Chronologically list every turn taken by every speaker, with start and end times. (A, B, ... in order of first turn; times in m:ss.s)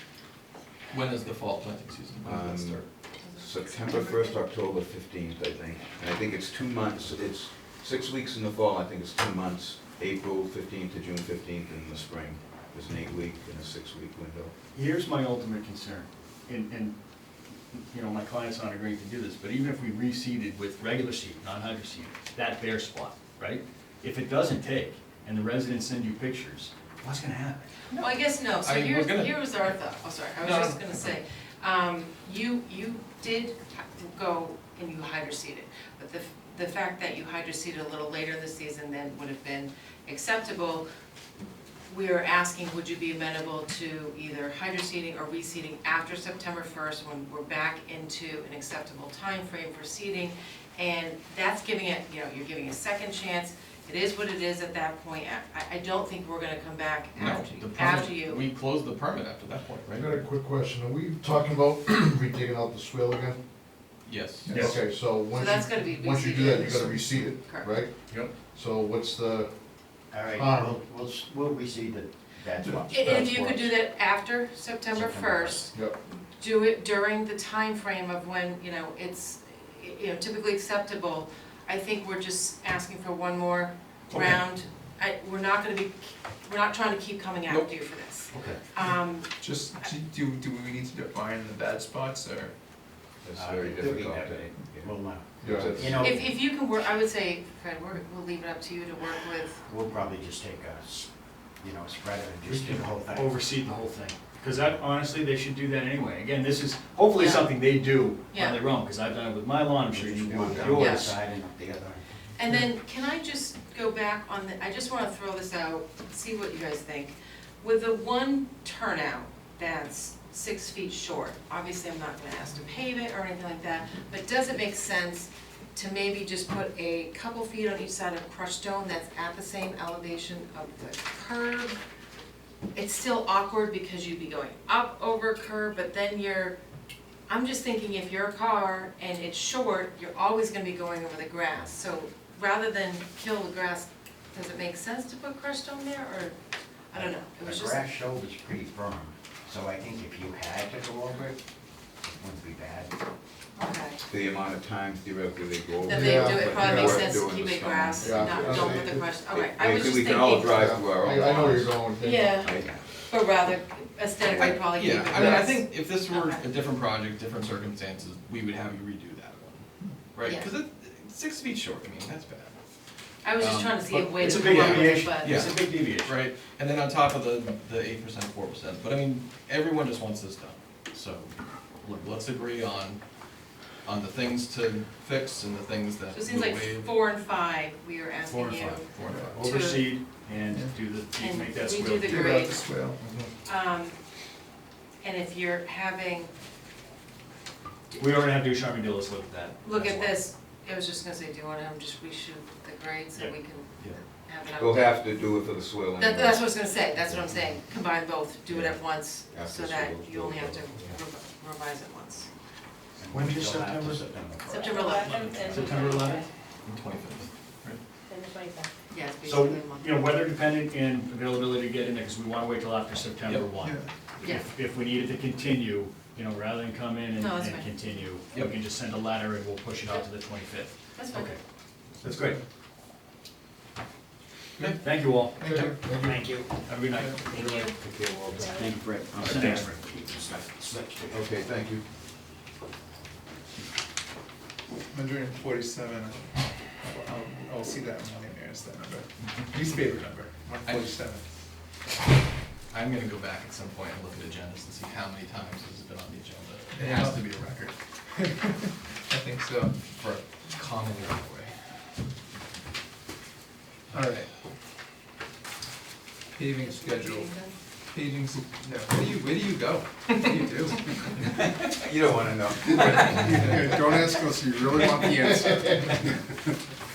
0:00.9-0:02.8 A
0:02.2-0:02.8 B
0:03.2-0:04.4 C
0:03.4-0:14.5 B
0:14.7-0:17.0 D
0:17.7-0:27.7 D
0:27.9-0:29.7 A
0:27.9-0:40.8 C
0:30.4-0:31.1 A
0:41.9-0:58.4 C
0:57.2-1:00.2 A
0:59.9-1:03.4 E
1:04.0-1:04.5 A
1:04.5-1:04.8 F
1:04.5-1:04.8 D
1:04.5-1:07.9 E
1:05.2-1:07.8 C
1:08.4-1:09.5 E
1:10.1-1:13.8 G
1:10.4-1:10.8 E
1:12.9-1:29.9 C
1:14.9-1:15.7 G
1:28.3-1:28.6 G
1:28.9-1:32.6 F
1:33.2-1:36.2 B
1:33.3-1:36.3 G
1:35.4-1:35.9 E
1:35.8-1:39.6 C
1:39.7-1:43.4 G
1:42.5-1:51.2 D
1:47.2-1:47.5 C
1:48.3-1:48.6 C
1:49.8-1:52.2 G
1:50.7-1:51.1 C
1:52.4-2:11.8 C
2:12.8-2:16.6 C
2:17.3-2:26.4 C
2:26.9-2:27.8 C
2:26.9-2:31.4 G
2:32.0-2:32.9 G
2:33.6-2:34.0 C
2:34.1-2:42.8 B
2:35.8-2:40.7 C
2:35.9-2:37.1 E
2:38.0-2:39.1 E
2:40.6-2:42.4 E
2:42.0-2:46.6 C
2:42.5-2:42.8 G
2:44.4-2:52.6 A
2:50.2-2:50.5 C
2:53.2-2:55.5 C
2:53.4-2:56.1 D
2:54.3-3:03.0 A
3:03.8-3:06.9 A
3:06.1-3:10.0 C
3:08.3-3:12.3 D
3:08.9-3:09.3 A
3:09.1-3:09.4 F
3:10.5-3:10.8 F
3:11.2-3:12.8 C
3:12.0-3:13.0 F
3:13.0-3:13.3 E
3:13.4-3:14.0 C
3:15.0-3:16.3 C
3:17.9-3:18.3 C
3:18.0-3:20.2 D
3:19.6-3:25.0 C
3:24.5-3:26.6 B
3:26.0-3:32.3 C
3:28.5-3:31.0 B
3:33.0-3:34.8 G
3:33.1-3:34.1 D
3:34.5-3:36.3 H
3:34.5-3:35.5 C
3:34.9-3:36.3 D
3:35.4-3:35.7 G
3:36.6-3:37.8 A
3:38.1-3:38.7 H
3:38.9-3:40.1 C
3:39.2-3:51.4 D
3:43.6-3:43.9 F
3:47.2-3:48.0 C
3:51.0-3:51.3 C
3:52.0-3:52.4 D
3:52.0-3:52.4 F
3:54.8-3:57.6 D
3:55.3-3:56.2 F
3:56.0-3:56.5 G
3:56.9-3:57.2 F
3:57.2-3:57.8 C
3:57.4-4:01.3 G
3:58.0-3:58.8 H
3:59.2-4:00.3 D
4:01.1-4:01.8 B
4:04.9-4:11.2 F
4:10.6-4:10.9 A
4:12.7-4:17.8 A
4:16.8-4:17.3 F
4:18.1-4:19.9 F
4:20.0-4:21.5 A
4:23.9-4:24.3 F
4:26.4-4:27.3 F
4:26.5-4:27.6 C
4:27.9-4:31.4 F
4:31.6-4:33.4 B
4:32.7-4:36.1 F
4:32.8-4:36.0 E
4:32.9-4:33.2 C